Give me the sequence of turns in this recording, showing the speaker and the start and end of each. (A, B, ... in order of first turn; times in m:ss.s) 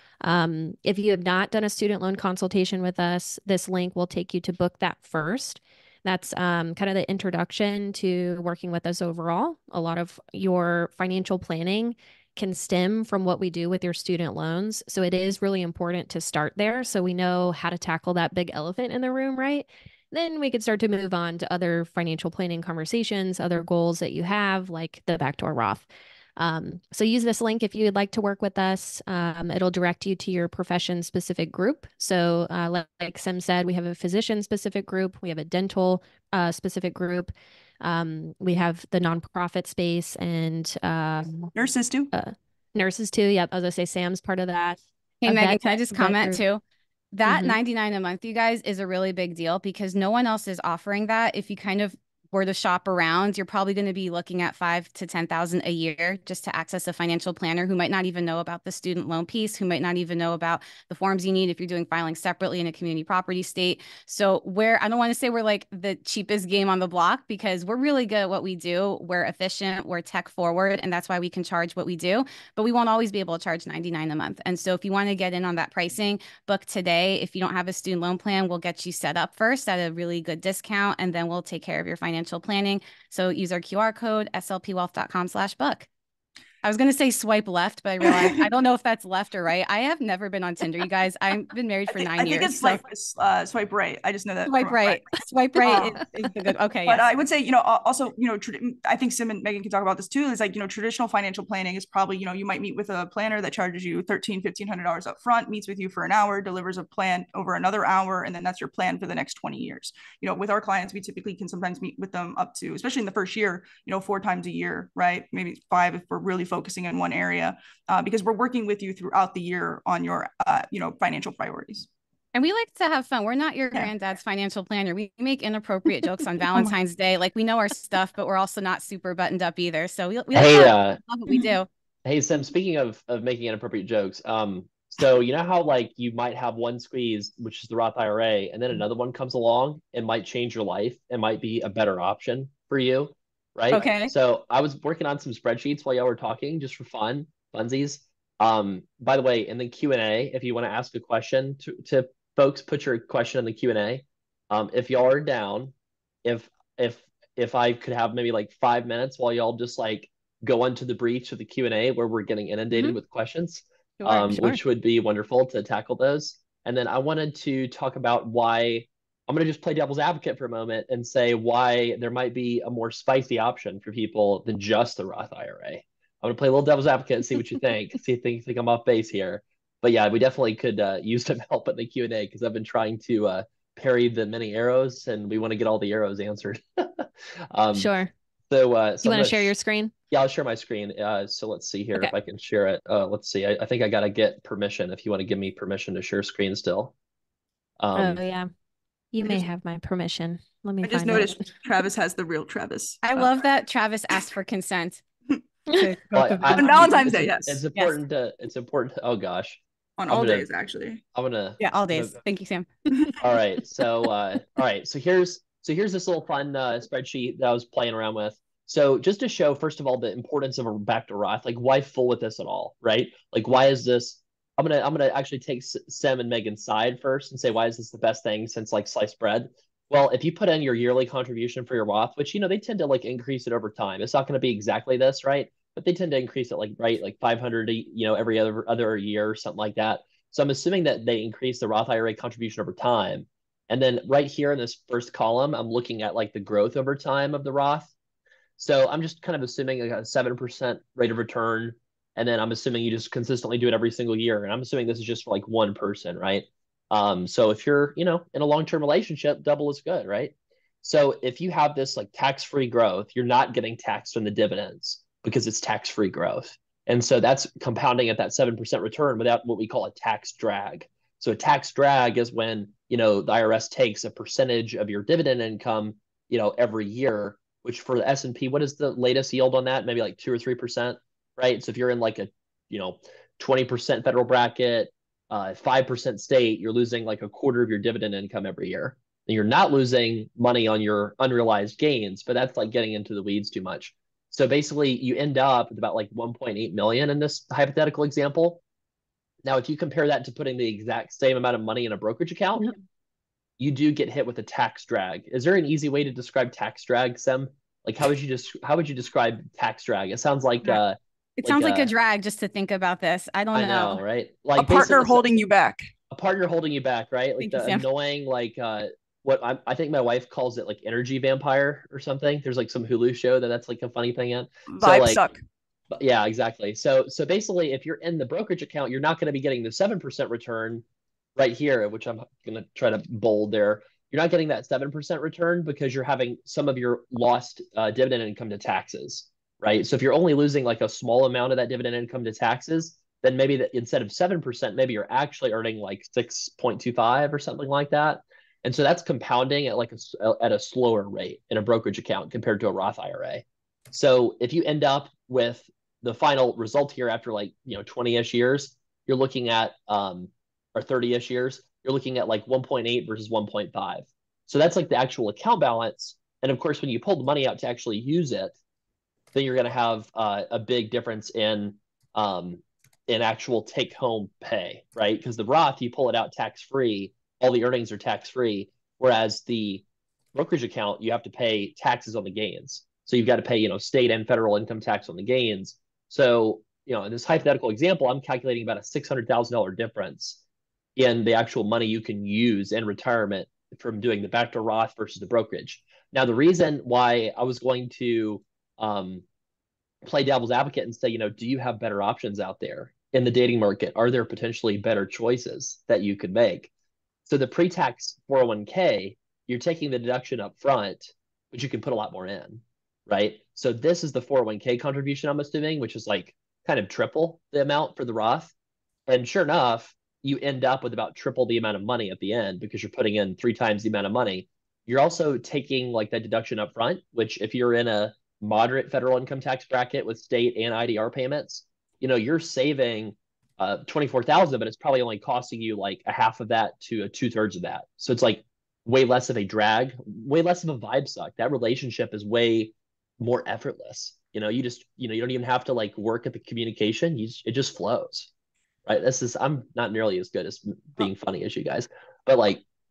0:00.2-0:41.5 A
0:41.5-0:42.1 B
0:42.1-0:46.4 A
0:45.2-0:46.6 C
0:47.1-1:25.9 C
0:47.2-0:47.6 A
1:26.6-1:32.8 C
1:28.0-1:28.4 B
1:31.9-1:35.0 B
1:34.5-1:37.0 C
1:35.6-1:36.0 B
1:36.8-2:01.9 B
2:02.3-2:11.7 C
2:06.5-2:06.7 B
2:10.3-2:11.0 D
2:11.3-2:11.5 B
2:12.0-2:35.7 D
2:23.7-2:24.1 C
2:36.2-3:07.9 D
2:44.0-2:44.6 A
3:07.7-3:08.1 A
3:08.5-3:09.5 D
3:09.0-3:09.9 A
3:10.1-3:16.9 D
3:17.8-3:18.2 D
3:17.9-3:18.5 A
3:19.1-3:21.5 A
3:20.8-3:23.3 B
3:23.0-3:25.0 C
3:25.7-3:26.4 A
3:25.7-3:27.1 C
3:26.1-3:30.4 D
3:26.5-3:27.6 B
3:30.0-3:31.0 B
3:31.1-3:32.2 D
3:31.6-3:32.7 C
3:33.2-4:07.9 D
4:08.6-4:58.6 D
4:59.4-5:02.7 D
5:03.6-5:11.9 D
5:11.4-5:14.0 C
5:13.5-5:15.4 D
5:14.6-5:15.9 B
5:16.1-5:25.2 D
5:17.4-5:17.8 C
5:24.7-5:25.4 B
5:25.9-5:30.8 D
5:31.4-6:08.5 D
6:09.3-6:30.4 D
6:31.0-6:39.2 D
6:40.0-6:46.7 D
6:47.2-6:58.5 D
6:59.1-7:28.3 D
7:28.8-7:32.6 D